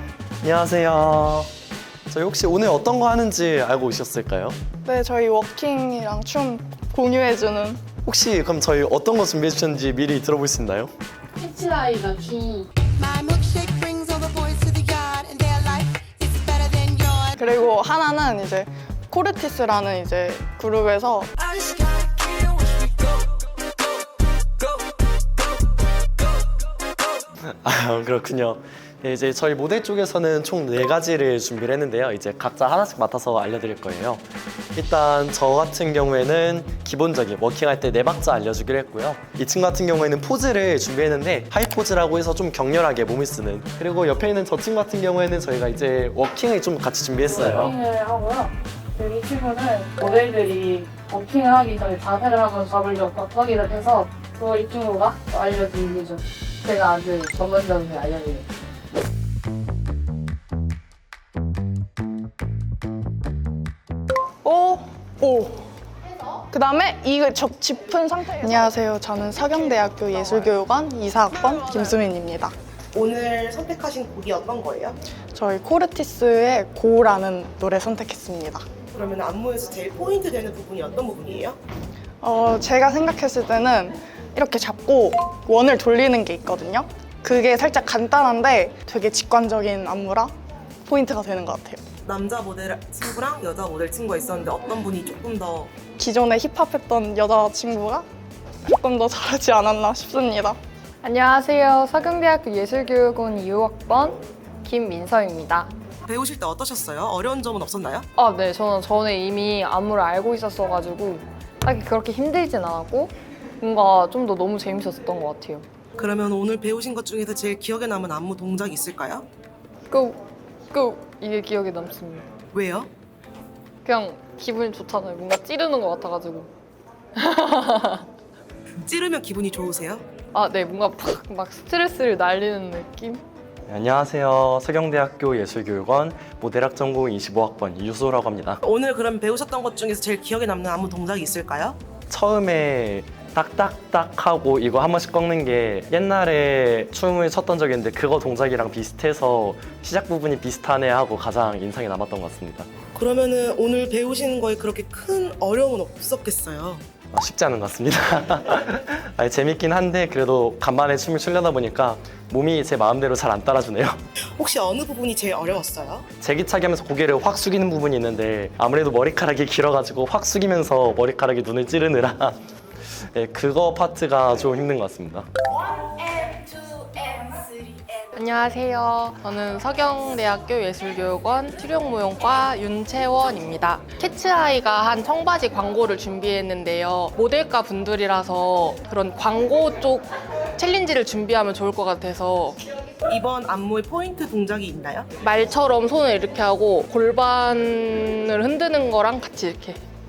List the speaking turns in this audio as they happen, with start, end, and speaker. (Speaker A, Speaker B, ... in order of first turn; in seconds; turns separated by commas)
Speaker A: 0.4-1.5, Speaker A: 2.1-4.6, Speaker B: 4.8-7.9, Speaker A: 8.0-10.9, Speaker C: 12.9-17.4, Speaker B: 17.4-21.3, Speaker A: 27.6-34.2, Speaker A: 34.7-47.7, Speaker D: 47.4-48.4, Speaker D: 49.0-56.1, Speaker D: 56.9-58.4, Speaker B: 64.4-65.7, Speaker B: 66.5-72.5, Speaker E: 72.9-75.0, Speaker B: 75.3-78.6, Speaker E: 78.9-81.6, Speaker B: 82.2-90.3, Speaker B: 90.9-91.8, Speaker E: 92.0-95.7, Speaker B: 96.0-98.0, Speaker B: 98.7-100.6, Speaker F: 101.0-105.7, Speaker E: 106.0-108.0, Speaker F: 108.2-115.7, Speaker E: 116.0-119.2, Speaker F: 119.9-120.2, Speaker F: 120.7-122.3, Speaker E: 122.5-122.9, Speaker F: 123.8-126.5, Speaker F: 127.2-128.1, Speaker E: 128.8-130.0, Speaker F: 130.3-133.2, Speaker A: 133.7-138.6, Speaker E: 138.6-141.8, Speaker A: 142.1-152.7, Speaker E: 152.9-156.8, Speaker A: 157.1-164.0, Speaker E: 164.4-166.1, Speaker A: 166.2-172.3, Speaker A: 172.9-175.3, Speaker G: 178.1-192.6, Speaker E: 193.1-195.1, Speaker G: 195.2-199.8